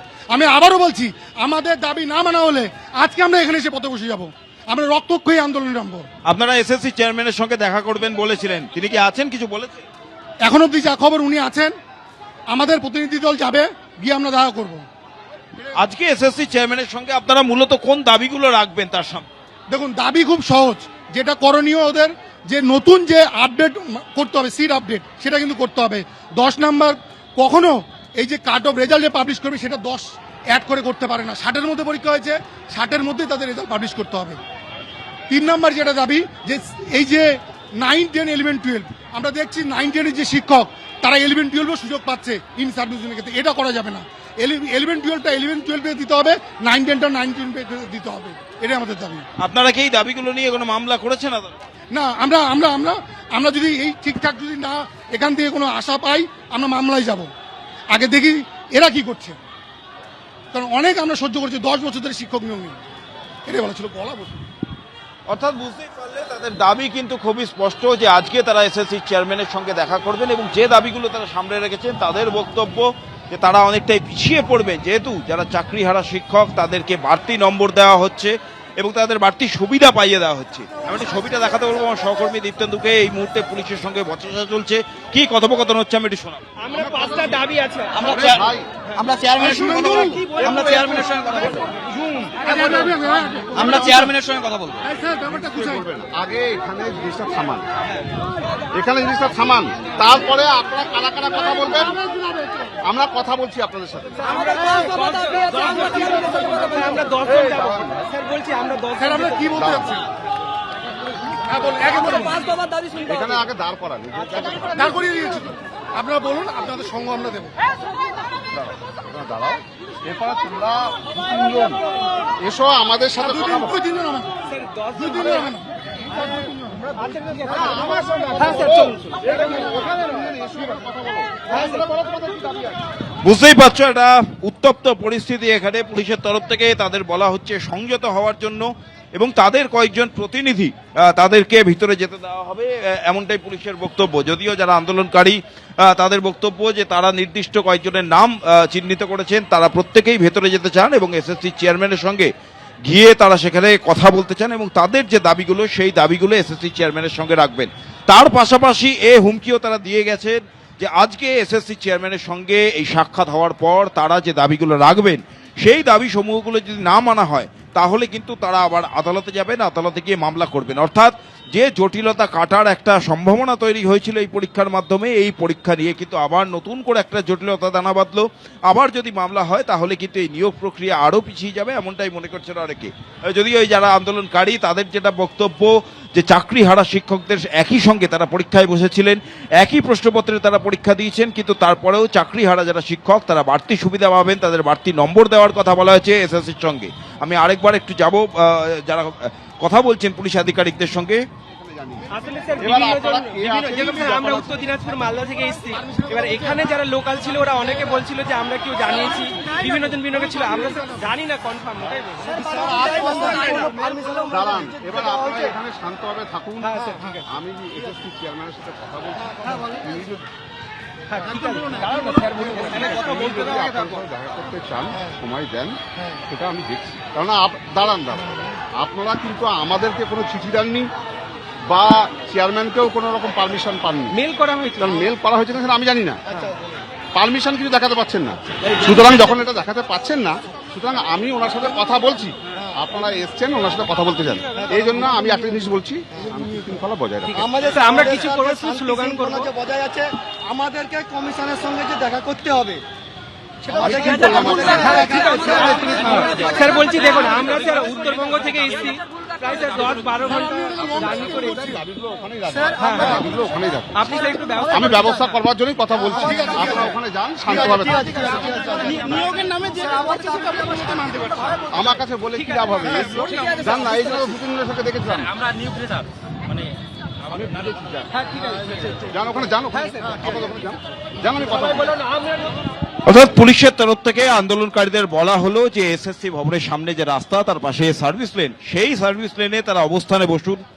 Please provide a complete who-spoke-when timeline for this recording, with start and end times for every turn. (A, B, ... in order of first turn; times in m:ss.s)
0:00.3-0:06.1 A
0:06.3-0:09.8 B
0:10.4-0:11.7 A
0:12.5-0:14.8 A
0:15.8-0:19.3 B
0:19.7-0:34.4 A
0:35.3-0:49.2 A
0:49.4-0:51.5 B
0:51.9-0:57.3 A
0:57.9-0:59.4 A
1:00.5-1:02.8 A
1:03.5-1:04.4 A
1:05.3-1:26.4 B
1:26.6-1:28.2 C
1:26.8-1:27.4 D
1:28.0-1:28.7 D
1:28.0-1:32.5 E
1:29.4-1:30.3 A
1:30.0-1:31.6 C
1:32.4-1:34.1 A
1:33.5-1:34.9 E
1:34.8-1:35.8 A
1:35.3-1:37.7 D
1:38.7-1:42.0 D
1:42.3-1:42.7 A
1:42.8-1:44.6 D
1:44.3-1:49.3 C
1:45.5-1:46.7 A
1:47.2-1:48.0 D
1:49.0-1:50.0 A
1:49.6-1:49.9 D
1:51.4-1:52.5 A
1:53.0-1:55.0 D
1:54.8-1:57.5 A
1:58.6-2:03.8 D
2:03.2-2:04.3 A
2:04.9-2:05.7 A
2:07.4-2:12.8 D
2:08.4-2:08.9 C
2:13.2-2:32.3 B
2:32.8-3:21.2 B
3:21.5-3:24.5 D
3:22.1-3:34.2 C
3:25.7-3:26.6 A
3:32.4-3:33.7 A
3:34.2-3:40.3 D
3:36.8-3:37.0 C
3:41.1-3:43.5 C
3:41.5-3:50.9 D
3:51.7-3:54.2 D
3:54.2-3:54.9 C
3:54.8-3:56.2 D
3:57.1-4:07.5 D
4:07.4-4:10.1 C
4:10.6-4:12.8 C
4:13.7-4:16.8 D
4:13.8-4:21.6 C
4:14.2-4:16.4 A
4:20.3-4:21.5 A
4:21.0-4:24.1 D
4:22.8-4:23.2 C
4:24.0-4:25.2 C
4:24.7-4:28.4 D
4:26.2-4:26.9 A
4:28.4-4:31.6 A
4:28.7-4:29.2 C
4:31.7-4:35.3 D
4:33.2-4:33.6 C
4:37.2-4:38.2 D
4:39.0-4:42.0 D
4:43.1-4:50.6 B